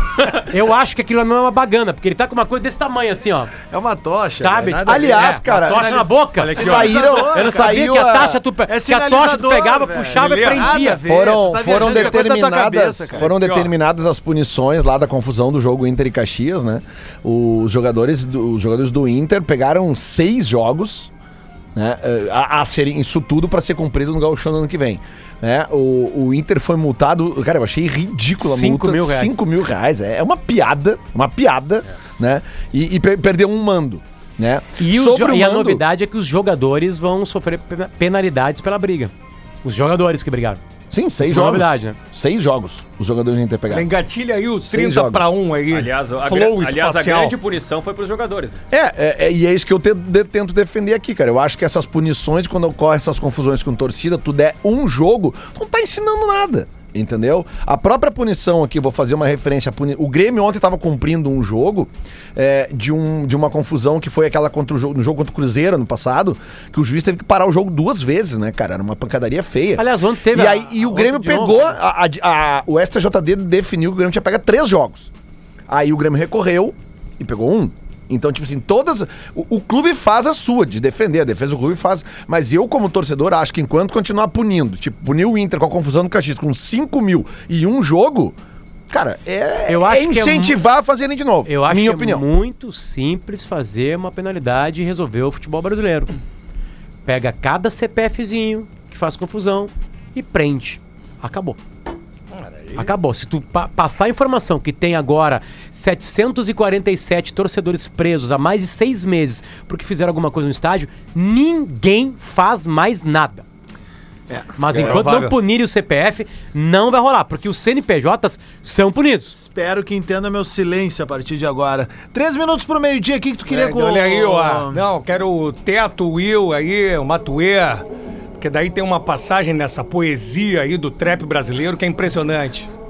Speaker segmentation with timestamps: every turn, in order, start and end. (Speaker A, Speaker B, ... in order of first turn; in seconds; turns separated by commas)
Speaker A: 0.3-3.5, Speaker B: 3.7-7.7, Speaker A: 4.3-11.0, Speaker C: 4.8-8.4, Speaker D: 6.4-6.9, Speaker B: 8.7-13.3, Speaker D: 10.2-10.8, Speaker C: 11.0-21.1, Speaker D: 13.2-13.7, Speaker C: 21.7-35.8, Speaker A: 28.4-29.4, Speaker A: 34.8-39.1, Speaker A: 39.6-40.6, Speaker C: 40.9-43.9, Speaker A: 41.2-42.0, Speaker D: 43.7-47.4, Speaker C: 44.6-45.3, Speaker E: 45.7-48.6, Speaker C: 48.7-75.1, Speaker A: 69.8-71.8, Speaker C: 75.7-88.3, Speaker C: 88.9-92.2, Speaker A: 89.7-90.6, Speaker A: 91.4-96.1, Speaker A: 97.0-101.6, Speaker D: 102.3-102.9, Speaker A: 102.7-113.4, Speaker B: 114.3-114.9, Speaker A: 114.5-119.3, Speaker D: 114.7-115.3, Speaker B: 119.3-124.8, Speaker D: 123.5-127.8, Speaker D: 128.4-132.7